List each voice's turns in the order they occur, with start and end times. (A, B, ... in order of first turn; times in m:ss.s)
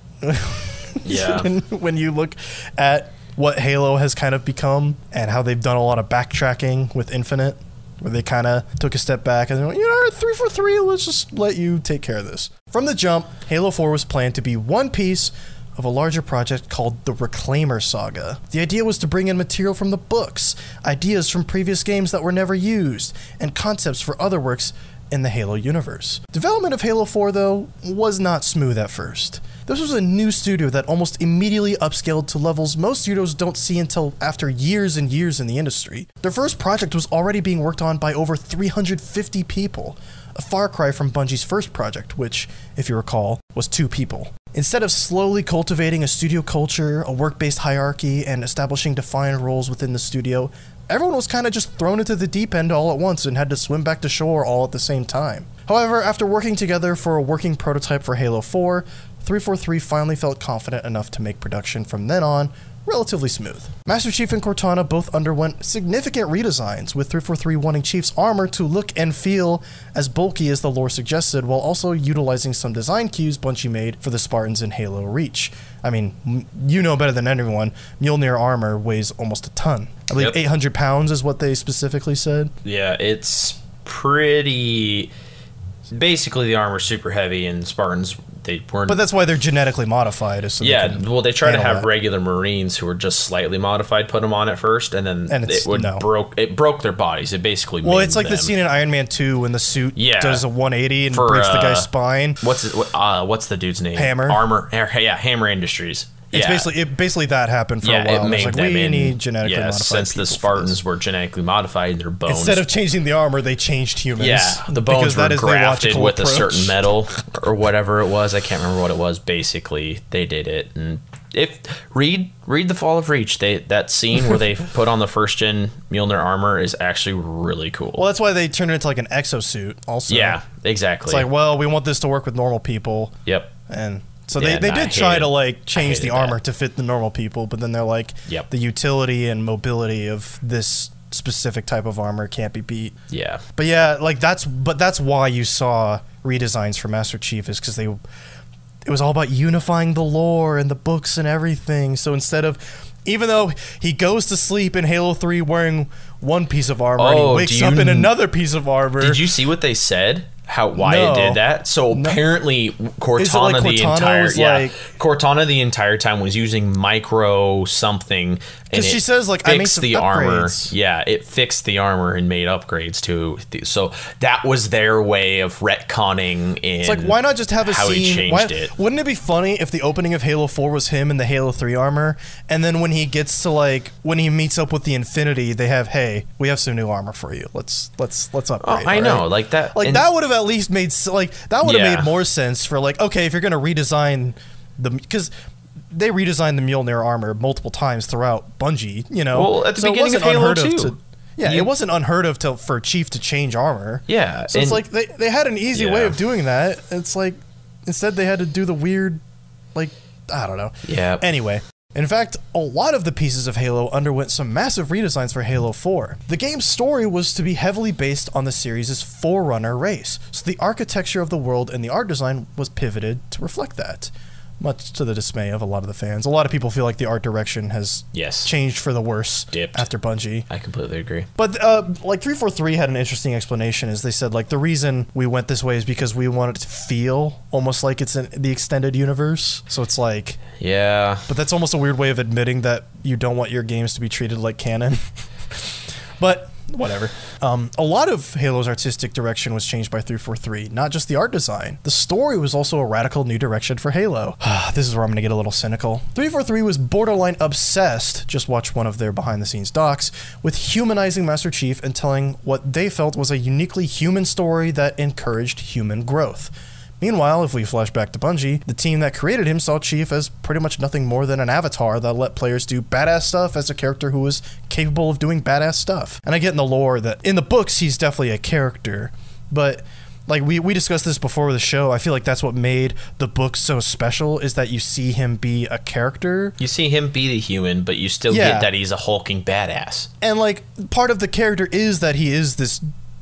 0:00.2-1:22.5 A
0:01.0-0:01.5 B
1:22.6-1:25.1 B
1:25.9-1:29.0 B
1:28.9-1:31.9 A
1:30.6-1:38.5 B
1:35.3-1:36.1 A
1:37.8-1:42.4 A
1:40.0-1:40.4 B
1:41.1-1:41.9 B
1:42.4-1:46.7 B
1:44.0-1:44.4 A
1:46.3-1:50.8 A
1:47.8-1:52.6 B
1:52.3-1:56.8 A
1:54.2-2:08.0 B
2:08.0-2:10.4 A
2:10.1-2:11.3 B
2:11.1-2:23.0 A
2:13.3-2:13.5 B
2:14.4-2:16.4 B
2:23.1-2:23.4 B
2:23.6-2:28.0 A
2:28.8-2:39.2 A
2:37.0-2:38.2 B
2:39.0-2:58.7 B
2:40.8-2:42.2 A
2:43.2-2:44.8 A
2:48.7-2:50.7 A
2:56.8-3:15.3 A
3:08.6-3:10.1 B
3:11.6-3:12.1 B
3:15.9-3:29.2 A
3:19.3-3:21.7 B
3:24.1-3:24.8 B
3:25.7-3:26.2 B
3:29.8-3:50.5 A
3:30.8-3:31.2 B
3:48.1-3:48.5 B
3:49.5-3:49.9 B
3:50.5-3:51.3 B
3:51.4-4:00.4 A
4:00.6-4:01.3 B
4:01.3-4:46.6 A
4:46.6-4:50.1 B
4:48.3-4:48.7 A
4:50.2-4:52.8 A